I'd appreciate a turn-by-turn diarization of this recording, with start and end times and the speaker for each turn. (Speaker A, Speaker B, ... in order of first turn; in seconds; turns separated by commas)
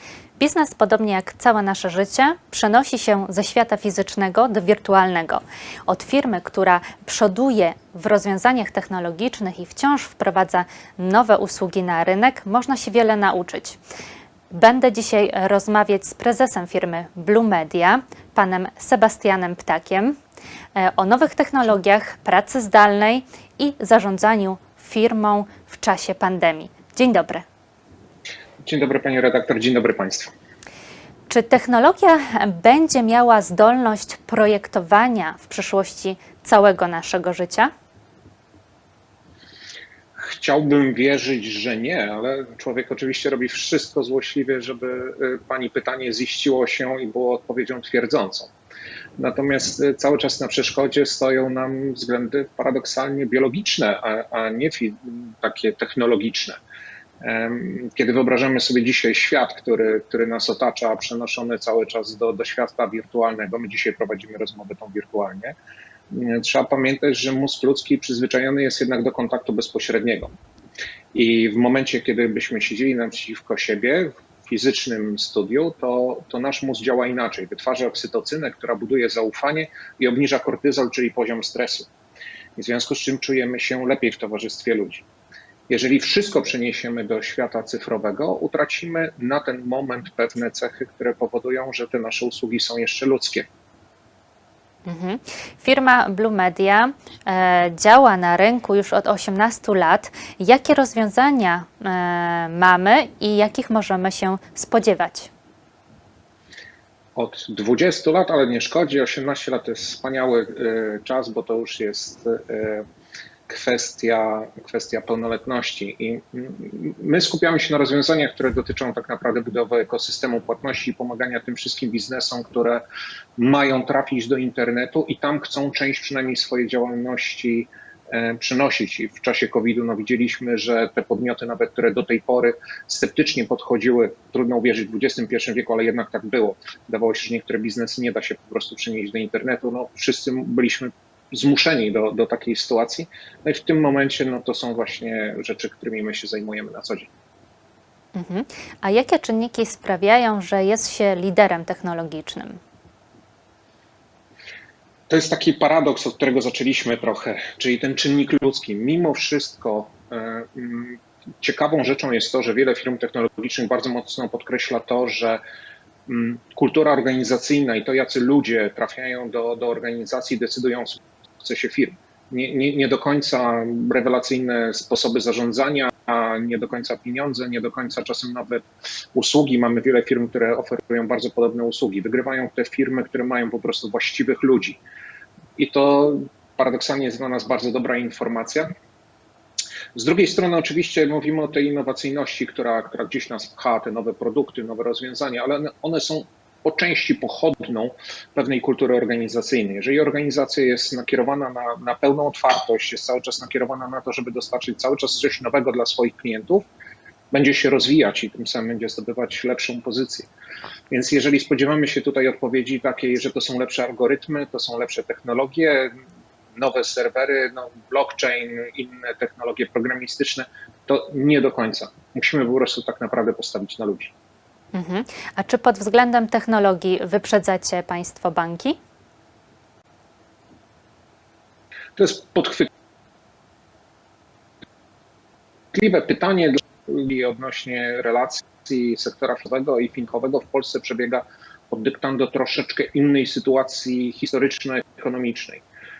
Speaker A: 0.4-13.8, Speaker A: 14.5-20.2, Speaker A: 20.7-27.4, Speaker B: 28.6-30.3, Speaker A: 31.3-37.7, Speaker B: 40.1-48.5, Speaker B: 49.2-56.6, Speaker B: 57.2-65.5, Speaker B: 66.1-70.3, Speaker B: 71.1-81.9, Speaker B: 82.5-85.0, Speaker B: 85.7-93.5, Speaker A: 94.8-105.3, Speaker B: 107.2-112.8, Speaker B: 113.5-122.8, Speaker B: 123.4-147.1, Speaker A: 148.1-152.6, Speaker B: 155.1-165.4, Speaker B: 166.1-184.8, Speaker B: 185.6-188.7, Speaker B: 189.9-206.7, Speaker B: 207.3-210.3, Speaker B: 210.9-215.9, Speaker B: 216.5-224.1, Speaker A: 224.7-228.8, Speaker B: 231.9-232.7, Speaker B: 235.7-245.6